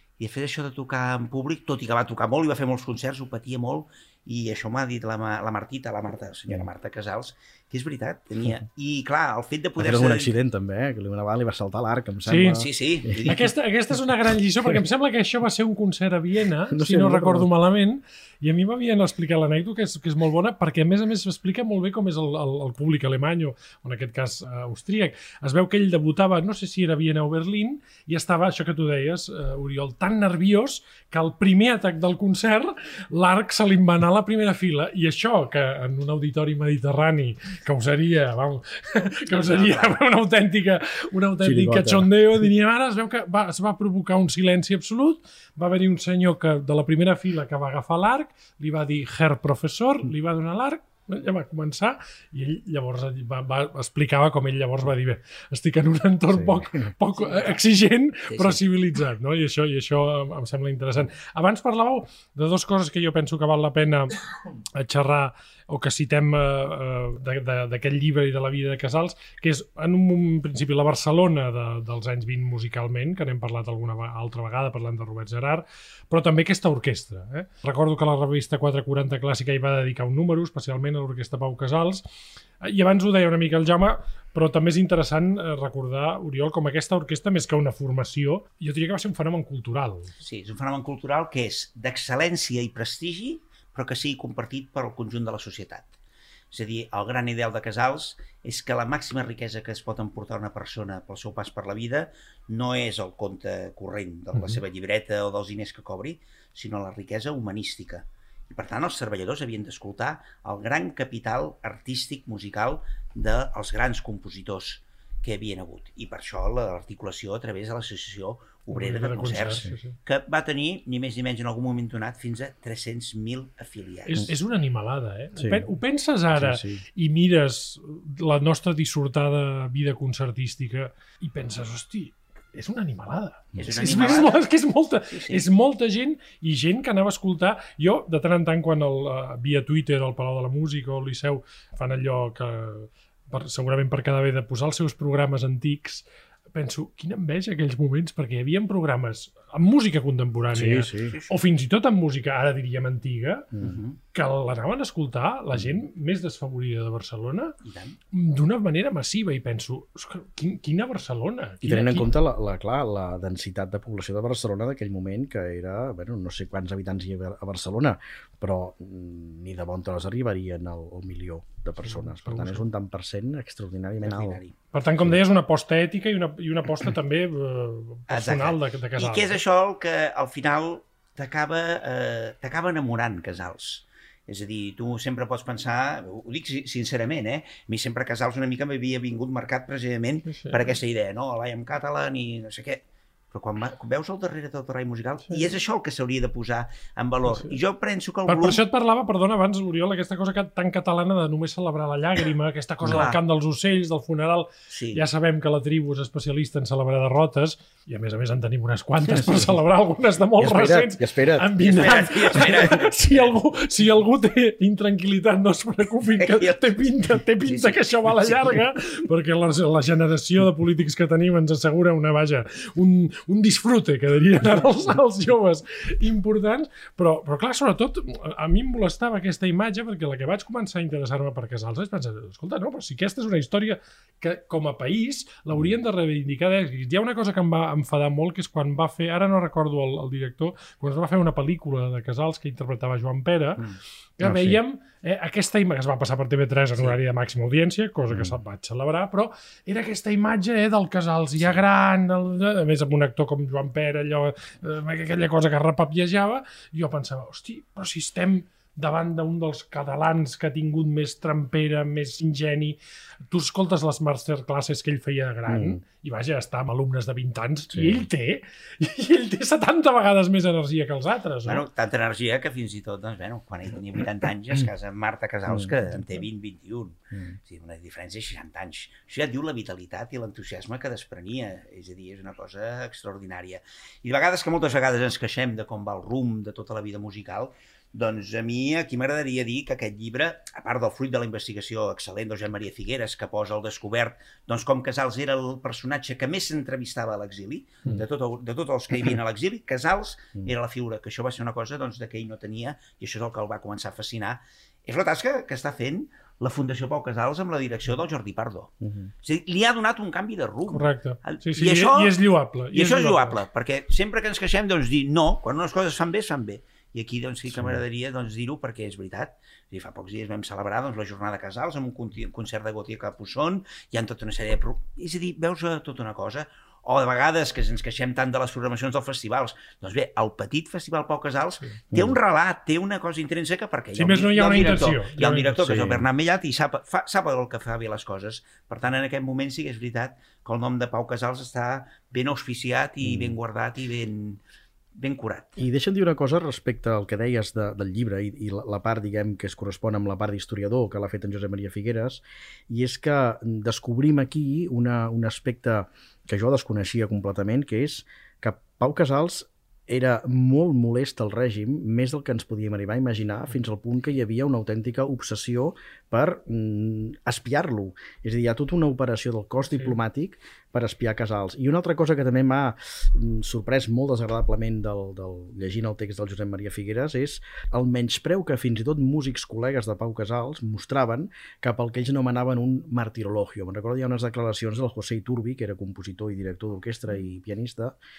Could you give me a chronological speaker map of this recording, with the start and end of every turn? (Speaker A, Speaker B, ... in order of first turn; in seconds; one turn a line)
Speaker A: 0.2-10.3
Speaker B: 9.8-13.3
Speaker C: 12.3-12.7
Speaker A: 12.5-13.5
Speaker C: 13.3-64.2
Speaker B: 16.7-17.5
Speaker A: 39.3-40.0
Speaker B: 41.4-42.1
Speaker B: 56.3-56.9
Speaker A: 57.2-57.6
Speaker A: 58.3-58.6
Speaker C: 64.7-82.0
Speaker C: 82.6-90.1
Speaker A: 90.2-95.9
Speaker A: 96.5-124.2
Speaker C: 118.7-119.9
Speaker C: 124.1-153.6
Speaker B: 125.4-125.7
Speaker B: 126.3-126.8
Speaker A: 133.6-134.5
Speaker A: 135.1-135.5
Speaker B: 150.5-151.2
Speaker A: 151.1-151.4
Speaker A: 153.6-154.0
Speaker C: 154.1-157.6
Speaker A: 157.6-158.0
Speaker C: 158.1-162.1
Speaker B: 161.6-174.4
Speaker C: 171.9-172.6
Speaker A: 174.0-174.6
Speaker C: 174.7-179.4
Speaker A: 178.1-198.6
Speaker C: 190.3-190.7
Speaker C: 197.3-197.6
Speaker C: 198.3-243.6
Speaker A: 202.8-203.2
Speaker A: 204.7-205.0
Speaker B: 209.2-209.5
Speaker B: 210.4-211.5
Speaker A: 211.6-213.0
Speaker A: 216.2-218.6
Speaker C: 244.2-262.8
Speaker B: 244.2-244.6
Speaker B: 248.1-248.3
Speaker C: 263.3-271.6
Speaker B: 265.5-265.8
Speaker B: 267.7-268.1
Speaker A: 271.4-312.2
Speaker B: 308.8-309.1
Speaker C: 310.7-313.4
Speaker A: 312.7-344.4
Speaker B: 317.5-317.8
Speaker C: 333.9-335.6
Speaker B: 335.6-336.1
Speaker B: 343.0-343.4
Speaker A: 344.9-345.6
Speaker B: 345.6-388.0